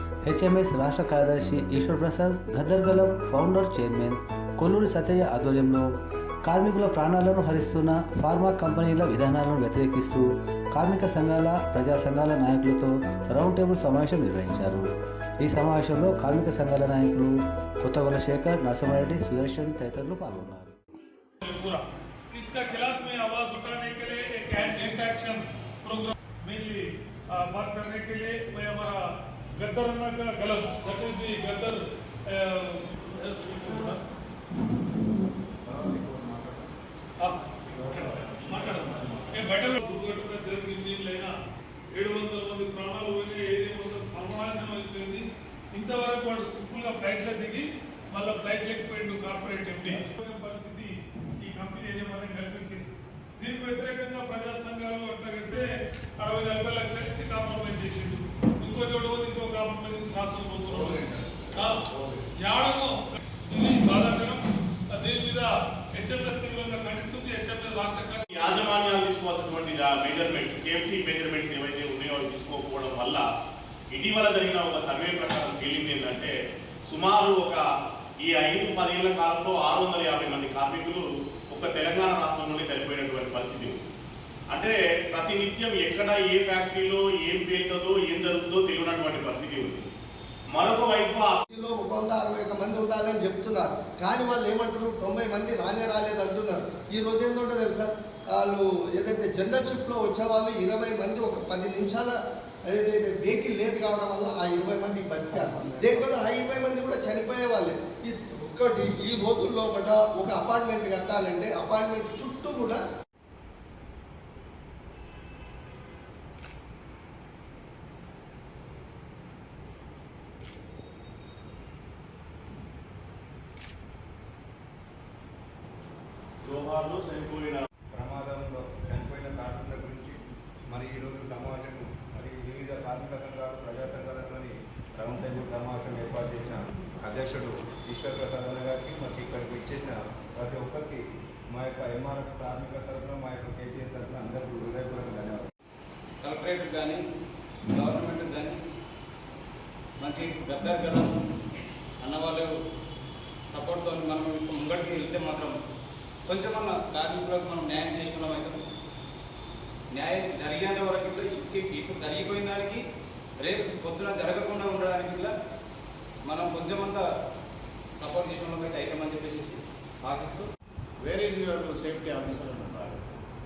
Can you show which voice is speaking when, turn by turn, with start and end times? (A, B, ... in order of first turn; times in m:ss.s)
0:00.2-0:14.9 A
0:15.4-0:20.8 A
0:21.4-0:29.0 B
0:29.6-0:34.0 B
0:37.2-0:41.4 B
0:41.9-1:08.2 B
1:00.7-1:02.2 C
1:08.3-1:13.2 D
1:13.9-1:16.3 D
1:16.9-1:17.6 D
1:18.2-1:23.8 D
1:24.5-1:29.9 D
1:30.5-1:31.4 D
1:31.5-1:42.1 E
1:42.7-1:52.8 E
2:06.4-2:07.6 D
2:07.9-2:10.2 F
2:10.7-2:25.5 F
2:26.2-2:27.0 G
2:27.7-2:28.6 G
2:30.0-2:31.2 G
2:32.0-2:32.5 G
2:33.5-2:35.6 G
2:36.3-2:38.6 G
2:39.9-2:42.8 G
2:43.4-2:45.3 G
2:46.2-2:47.0 G
2:48.0-2:50.5 G
2:51.0-2:53.1 C